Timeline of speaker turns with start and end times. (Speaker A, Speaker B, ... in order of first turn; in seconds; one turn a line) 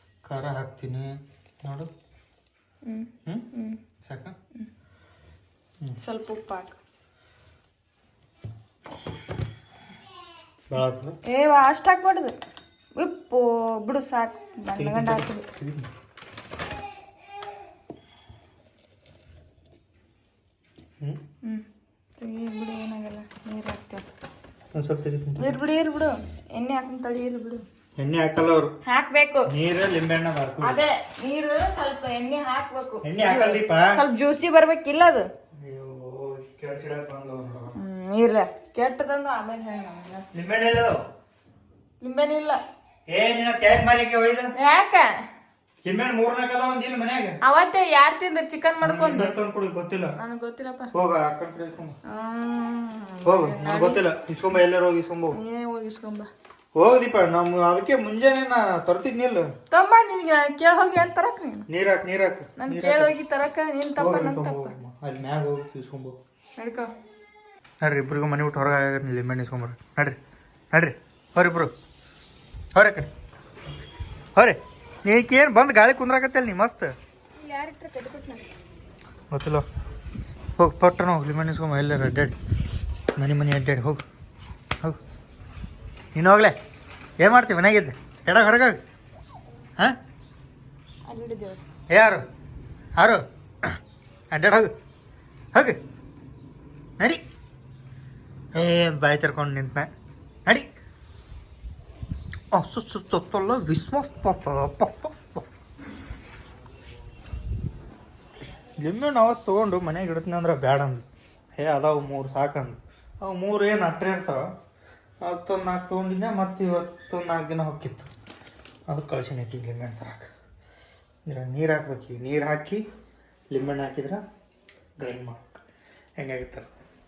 Speaker A: 0.2-1.1
Speaker A: 1.6-1.9
Speaker B: 2.8-3.8
Speaker A: 4.0-4.3
Speaker B: 6.0-6.8
Speaker A: 10.7-11.2
Speaker B: 11.2-12.3
Speaker B: 12.9-15.5
Speaker A: 14.8-15.9
Speaker B: 22.2-24.0
Speaker A: 24.7-25.6
Speaker B: 25.4-27.6
Speaker A: 28.0-28.7
Speaker B: 28.8-29.5
Speaker A: 29.5-30.8
Speaker B: 30.6-35.3
Speaker A: 33.0-34.0
Speaker A: 35.6-37.8
Speaker B: 37.7-40.3
Speaker A: 40.3-41.0
Speaker B: 42.0-42.6
Speaker A: 43.1-44.5
Speaker B: 44.6-45.1
Speaker A: 45.8-47.4
Speaker B: 47.4-49.4
Speaker A: 48.8-50.1
Speaker B: 50.2-50.9
Speaker A: 50.9-51.9
Speaker B: 52.1-54.0
Speaker A: 53.2-55.4
Speaker B: 55.3-56.3
Speaker A: 56.8-59.5
Speaker B: 59.7-61.6
Speaker A: 61.7-63.1
Speaker B: 62.6-64.7
Speaker A: 64.0-66.2
Speaker B: 66.6-66.9
Speaker A: 67.8-70.2
Speaker A: 70.7-71.7
Speaker A: 72.8-73.1
Speaker A: 74.3-76.9
Speaker B: 77.3-78.5
Speaker A: 79.3-79.7
Speaker A: 80.6-82.4
Speaker A: 83.2-84.0
Speaker A: 86.1-86.5
Speaker A: 87.2-88.8
Speaker B: 91.0-91.6
Speaker A: 91.9-92.2
Speaker A: 93.0-93.7
Speaker A: 94.3-94.7
Speaker A: 98.5-99.9
Speaker A: 102.5-105.5
Speaker A: 108.8-114.5
Speaker A: 115.2-118.1
Speaker A: 118.9-120.3
Speaker A: 121.2-122.8
Speaker A: 123.5-124.2
Speaker A: 125.0-125.6
Speaker A: 126.2-126.7